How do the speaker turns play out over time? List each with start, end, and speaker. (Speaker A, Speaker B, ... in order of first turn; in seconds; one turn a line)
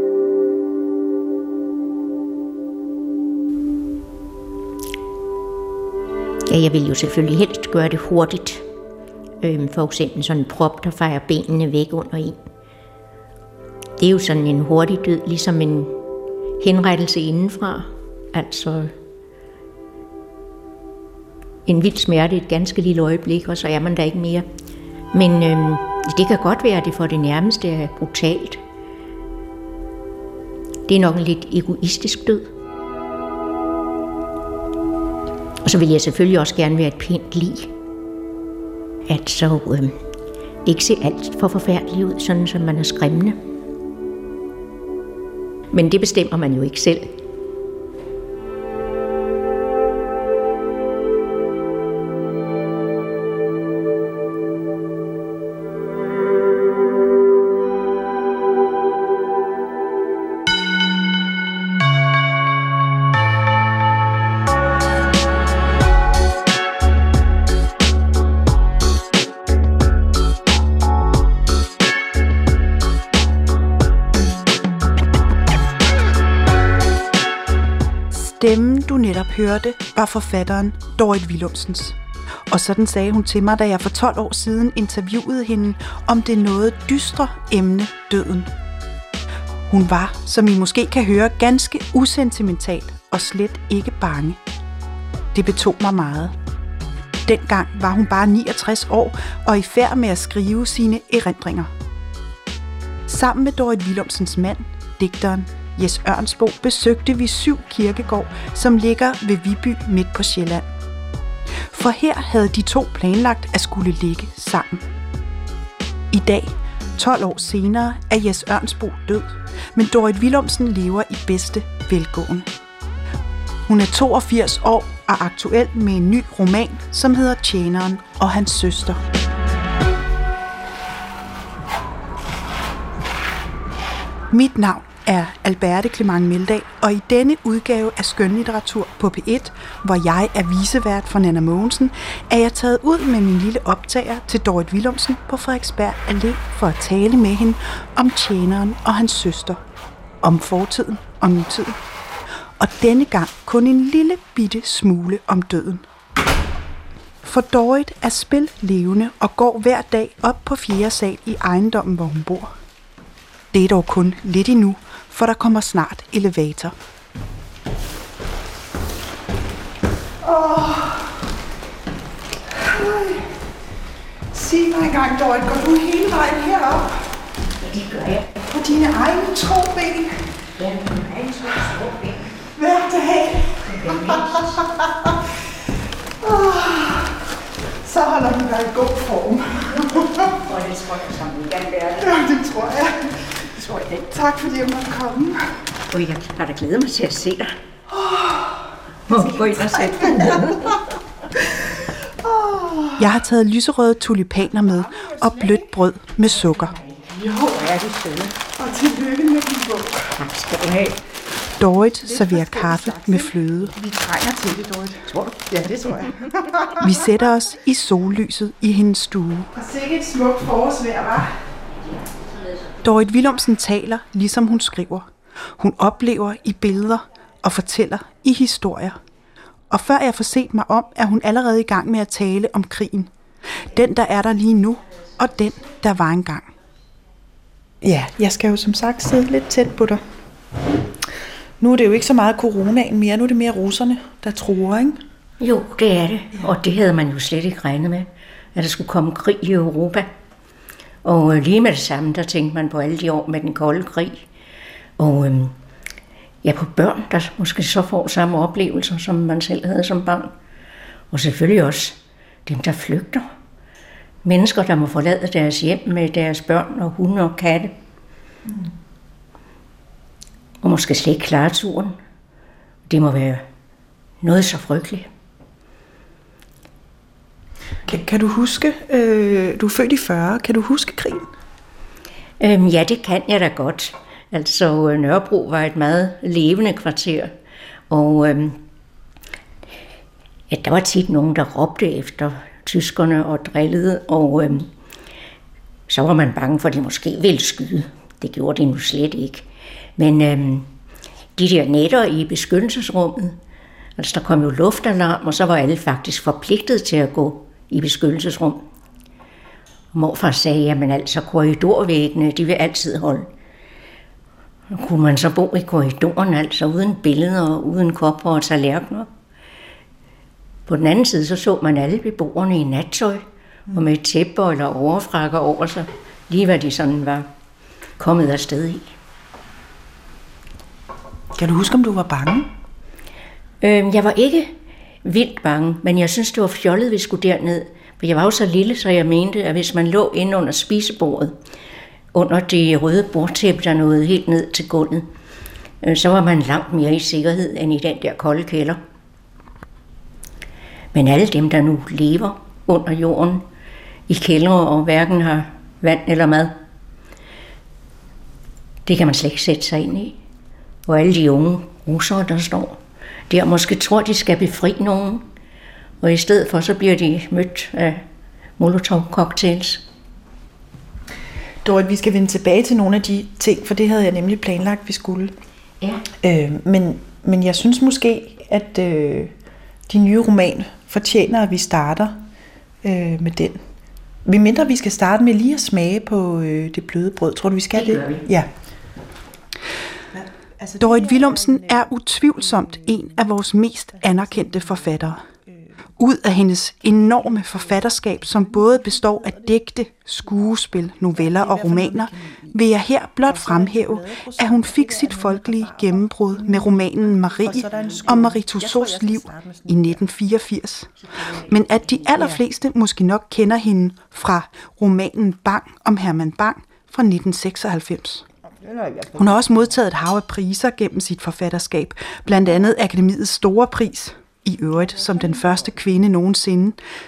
Speaker A: 6.5-8.7
Speaker A: 9.4-12.4
Speaker A: 14.0-15.9
Speaker A: 16.6-18.9
Speaker A: 21.7-24.4
Speaker A: 25.1-28.6
Speaker A: 30.9-32.5
Speaker A: 35.6-37.7
Speaker A: 39.1-40.0
Speaker A: 40.6-43.4
Speaker A: 45.7-47.2
Speaker B: 78.1-82.0
Speaker B: 82.5-88.5
Speaker B: 89.7-94.4
Speaker B: 95.3-96.3
Speaker B: 97.3-101.7
Speaker B: 103.1-110.7
Speaker B: 111.7-114.9
Speaker B: 116.1-122.5
Speaker B: 123.7-129.0
Speaker B: 134.3-149.6
Speaker B: 150.2-151.8
Speaker B: 152.6-155.9
Speaker B: 157.2-162.5
Speaker B: 163.5-166.7
Speaker C: 170.2-171.2
Speaker C: 172.5-173.3
Speaker C: 174.3-177.2
Speaker A: 177.6-178.3
Speaker C: 178.5-180.3
Speaker A: 180.6-182.2
Speaker C: 182.4-185.2
Speaker A: 183.7-184.7
Speaker C: 186.2-187.2
Speaker C: 187.8-190.4
Speaker A: 190.4-192.1
Speaker C: 192.0-195.6
Speaker A: 195.9-197.6
Speaker C: 197.9-200.8
Speaker A: 199.1-200.9
Speaker C: 201.5-203.1
Speaker B: 203.0-206.8
Speaker C: 204.7-205.6
Speaker A: 206.4-208.4
Speaker C: 208.6-210.1
Speaker A: 210.2-211.0
Speaker B: 211.6-213.8
Speaker C: 212.1-216.9
Speaker B: 216.8-219.5
Speaker C: 219.6-221.3
Speaker B: 222.8-229.0
Speaker B: 229.7-236.5
Speaker C: 237.8-240.0
Speaker C: 241.6-245.0
Speaker A: 245.4-250.1
Speaker A: 251.0-254.2
Speaker A: 255.0-255.5
Speaker A: 256.4-260.3
Speaker A: 261.1-263.3
Speaker A: 264.2-267.7
Speaker A: 270.6-272.0
Speaker A: 272.9-273.4
Speaker A: 274.2-275.1
Speaker C: 277.9-281.3
Speaker A: 282.4-287.3
Speaker A: 287.9-288.6
Speaker A: 290.5-294.7
Speaker A: 295.9-299.5
Speaker A: 300.0-300.7
Speaker A: 301.4-303.4
Speaker A: 304.0-308.6
Speaker A: 309.9-313.3
Speaker A: 314.7-319.1
Speaker A: 320.7-327.3
Speaker A: 328.0-328.9
Speaker C: 331.4-332.5
Speaker A: 333.6-334.5
Speaker A: 335.0-341.4
Speaker A: 342.1-345.0
Speaker A: 345.8-348.8
Speaker A: 350.9-353.4
Speaker A: 354.1-356.5
Speaker A: 358.9-360.2
Speaker A: 360.9-365.2
Speaker A: 366.0-368.0
Speaker A: 368.6-369.8
Speaker C: 371.6-375.3
Speaker C: 376.2-379.3
Speaker C: 379.9-382.2
Speaker C: 382.8-383.6
Speaker C: 384.2-388.5
Speaker A: 387.8-388.3
Speaker C: 390.1-391.9
Speaker B: 390.8-395.2
Speaker C: 392.6-393.1
Speaker C: 394.0-394.9
Speaker B: 396.0-418.3
Speaker C: 398.5-399.4
Speaker C: 401.2-402.6
Speaker C: 403.3-409.9
Speaker C: 418.7-419.3
Speaker B: 419.1-426.8
Speaker C: 425.1-425.6